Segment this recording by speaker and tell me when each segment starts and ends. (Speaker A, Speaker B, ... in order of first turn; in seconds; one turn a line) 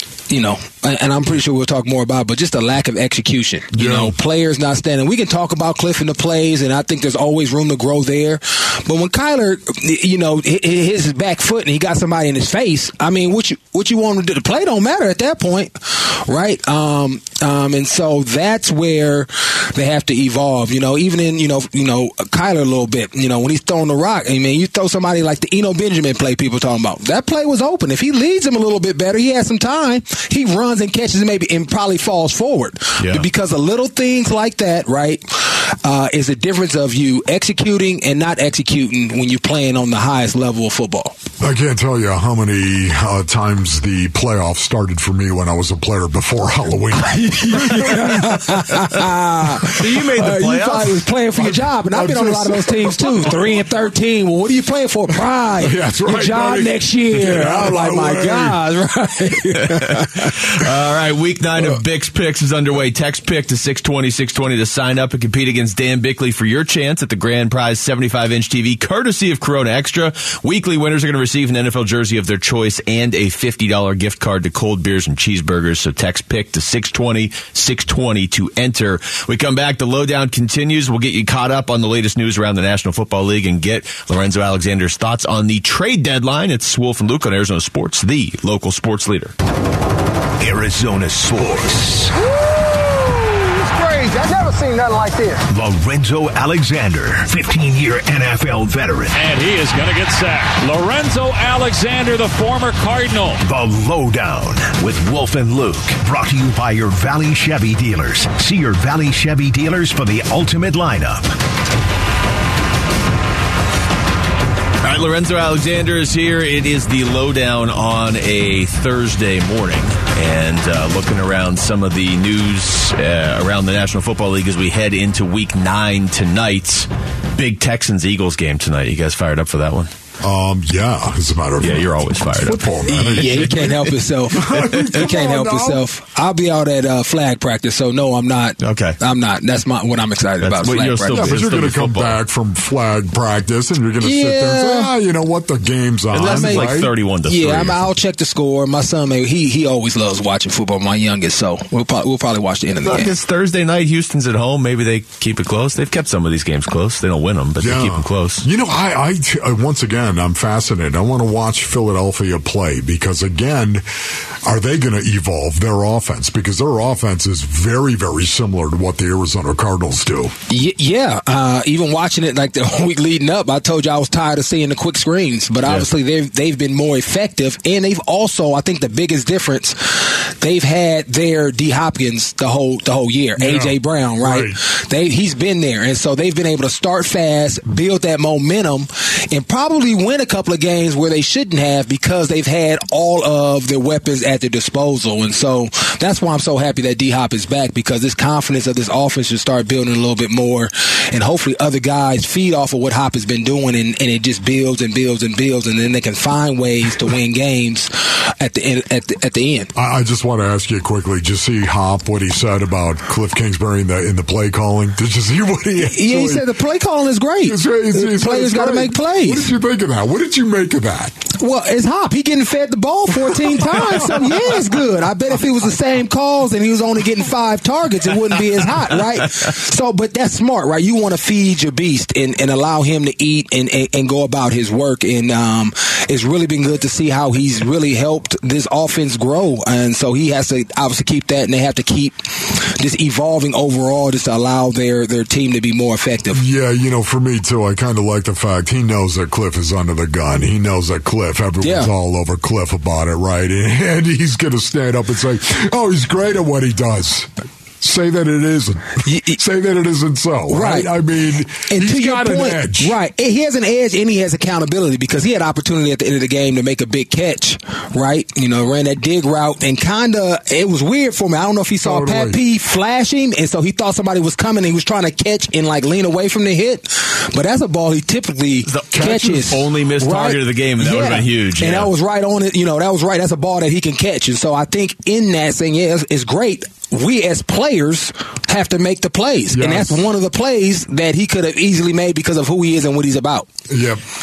Speaker A: 0.3-41.1
Speaker B: 3.7-4.1
Speaker C: 33.0-33.3
Speaker B: 41.4-48.9
Speaker A: 47.0-60.3
Speaker C: 49.7-51.1
Speaker B: 51.4-53.7
Speaker B: 55.6-58.6
Speaker C: 60.4-89.3
Speaker D: 90.4-92.2
Speaker A: 94.1-95.3
Speaker D: 95.5-99.2
Speaker E: 99.1-103.4
Speaker D: 103.4-111.3
Speaker C: 114.8-129.9
Speaker B: 130.2-135.8
Speaker C: 131.6-135.0
Speaker A: 132.9-141.4
Speaker C: 138.6-139.0
Speaker C: 140.4-142.2
Speaker B: 141.1-146.9
Speaker A: 144.0-144.9
Speaker C: 146.1-147.9
Speaker A: 146.2-153.1
Speaker C: 152.8-158.4
Speaker B: 157.6-163.8
Speaker B: 164.4-170.3
Speaker A: 170.5-209.7
Speaker B: 183.4-184.6
Speaker B: 209.7-216.5
Speaker A: 215.8-219.5
Speaker B: 217.4-221.2
Speaker A: 221.3-246.4
Speaker B: 246.3-257.3
Speaker A: 251.6-251.9
Speaker B: 257.8-262.9
Speaker A: 259.1-259.4
Speaker A: 260.5-260.9
Speaker A: 261.7-293.5
Speaker B: 271.8-272.4
Speaker C: 278.7-281.9
Speaker B: 278.9-279.3
Speaker B: 289.5-290.0
Speaker B: 293.7-294.0